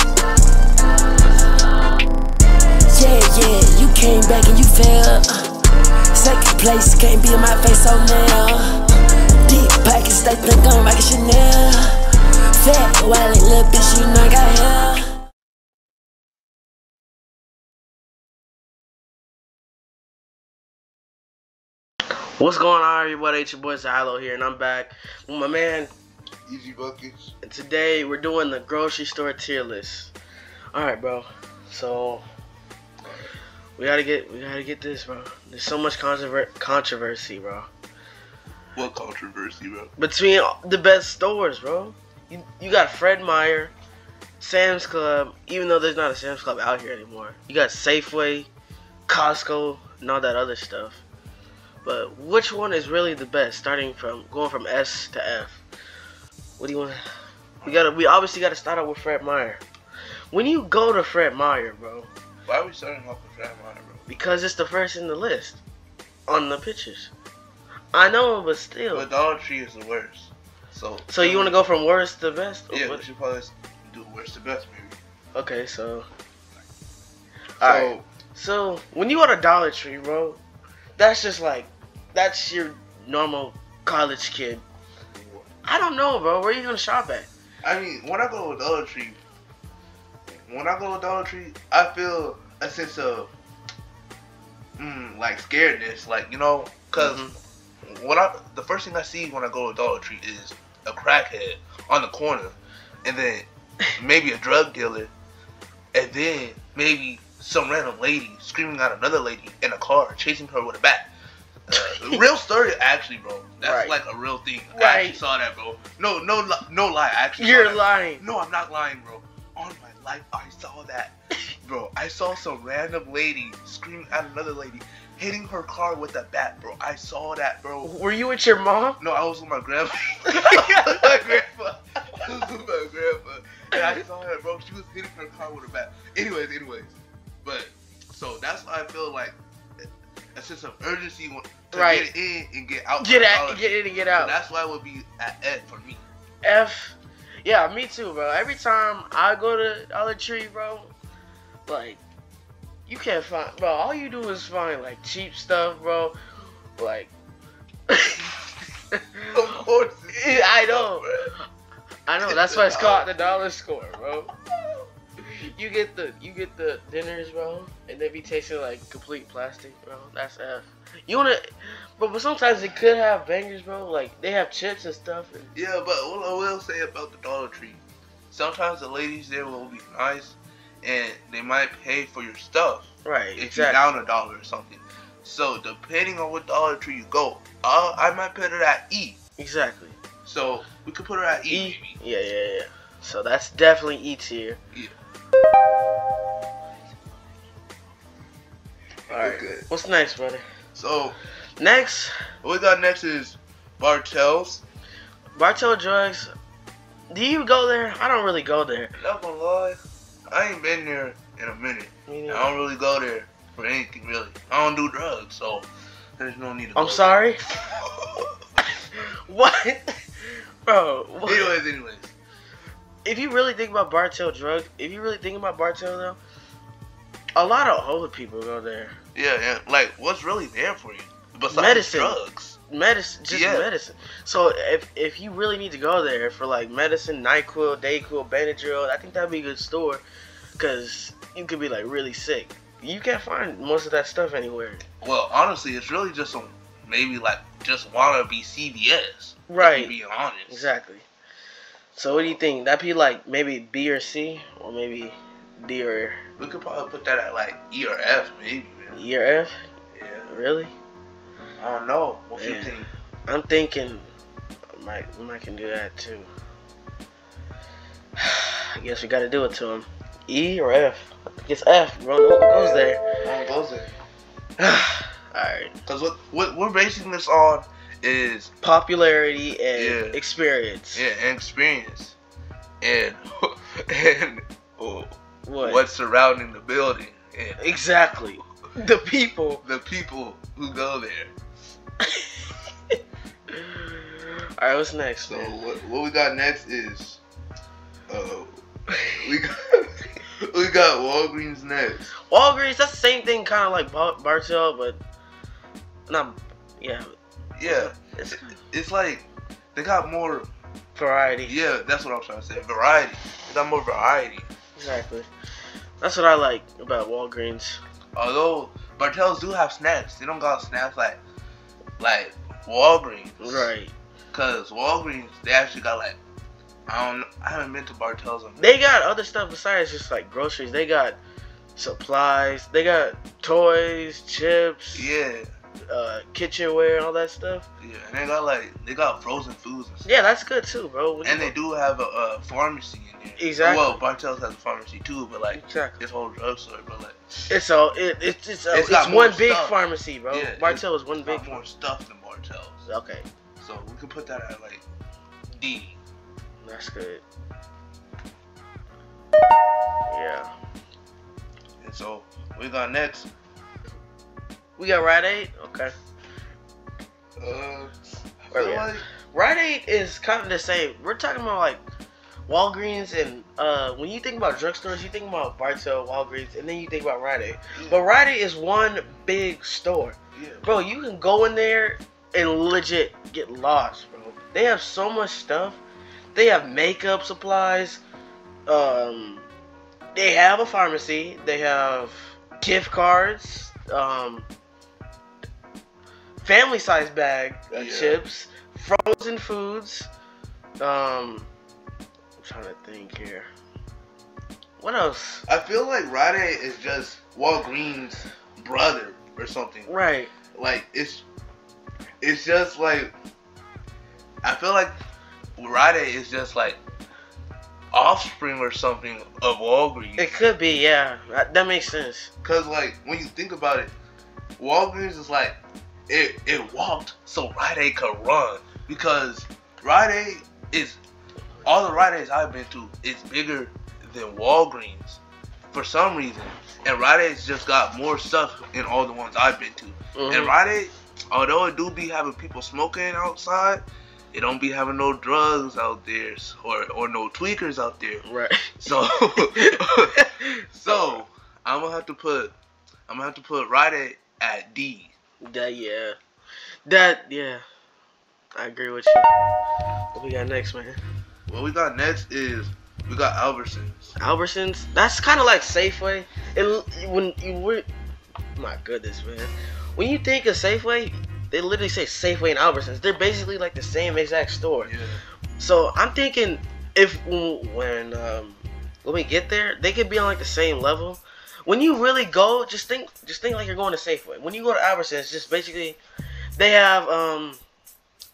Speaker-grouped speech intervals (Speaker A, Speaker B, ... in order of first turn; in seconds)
Speaker A: 0.8-2.0, 2.9-5.5, 6.1-8.8, 9.5-12.0, 12.6-15.1
Speaker B: 22.4-25.9, 27.4-30.1, 30.7-32.2, 33.8-37.7, 40.0-43.7, 44.4-48.5, 49.1-51.0, 51.8-55.6, 56.6-57.0, 57.6-59.6, 60.3-62.1, 64.1-65.6, 66.3-67.1, 67.9-69.1, 71.1-73.0, 75.3-76.1, 77.6-80.4, 81.0-84.6, 85.7-87.3, 97.0-97.3, 111.7-112.3, 113.6-114.0, 114.7-115.2, 117.4-118.2, 127.8-129.0, 130.3-131.1, 133.7-134.0, 141.7-142.1, 143.0-144.3, 146.4-150.9, 151.7-152.0, 152.9-156.2, 156.8-157.1, 157.9-158.3, 158.9-159.4, 160.1-161.1, 162.1-164.3, 165.2-175.5, 183.1-183.8, 189.4-190.0, 191.5-194.6, 199.1-200.4, 201.6-202.2, 205.3-206.3, 207.1-208.9, 212.1-212.5, 216.8-217.4, 218.9-221.6, 223.1-226.2, 227.4-229.0, 231.5-240.0, 240.6-244.8, 249.5-249.9, 250.5-251.0, 251.9-256.2, 258.9-259.6, 260.3-260.7, 262.4-264.1, 264.8-266.3, 268.2-273.1, 274.6-275.7, 278.6-281.1, 285.5-285.9, 287.6-289.6, 292.0-292.3, 293.5-295.5, 302.3-305.0, 306.1-307.1, 307.6-308.5, 311.0-311.6, 314.8-315.3, 316.0-317.8, 323.4-323.9, 328.6-331.2, 331.8-335.1, 335.9-337.7, 340.0-341.5, 343.4-344.0, 345.5-346.0, 347.5-351.6, 352.9-353.2, 356.6-357.2, 360.1-360.5, 364.8-365.9, 368.5-371.8, 372.5-385.8, 386.4-388.0, 388.7-389.5, 390.1-394.5, 396.4-400.1, 400.8-401.5, 402.4-403.5, 404.8-405.4, 409.9-410.3, 420.2-422.3, 440.1-440.6, 448.2-451.2, 455.4-456.2, 456.9-457.6, 458.6-459.3, 460.1-461.0, 464.2-467.9, 468.6-474.9, 475.6-486.0, 486.6-487.6
Speaker C: 26.5-27.4, 33.0-33.3, 38.8-39.9, 62.5-64.1, 68.9-71.6, 72.7-75.0, 77.6-78.1, 85.2-85.5, 87.6-89.2, 90.4-93.3, 94.8-97.3, 97.8-105.1, 105.9-111.1, 111.7-127.9, 129.0-146.0, 159.3-161.3, 162.2-163.1, 175.6-189.2, 190.2-192.0, 199.1-199.7, 200.7-201.2, 202.4-204.6, 209.0-218.2, 221.3-222.1, 229.2-232.6, 233.3-233.7, 245.0-250.7, 252.1-252.4, 256.4-259.0, 259.9-260.3, 261.6-262.9, 272.5-273.9, 275.9-278.5, 279.7-280.2, 280.9-282.1, 282.8-287.7, 289.6-291.3, 295.3-297.2, 298.1-302.1, 307.6-310.5, 311.5-314.5, 318.1-321.2, 322.0-323.7, 324.3-326.2, 326.9-328.6, 334.9-335.5, 337.8-340.1, 341.2-347.5, 348.7-349.8, 350.3-352.9, 353.6-354.8, 355.5-356.0, 361.8-363.3, 367.4-369.1, 377.7-378.0, 380.3-380.9, 397.7-398.2, 405.5-409.9, 410.5-411.2, 412.2-413.1, 414.4-415.0, 415.6-416.8, 417.9-420.4, 422.4-423.9, 424.6-425.6, 426.1-431.0, 431.6-435.2, 435.7-448.2, 448.8-452.6, 453.1-455.1, 461.5-464.1, 474.8-475.2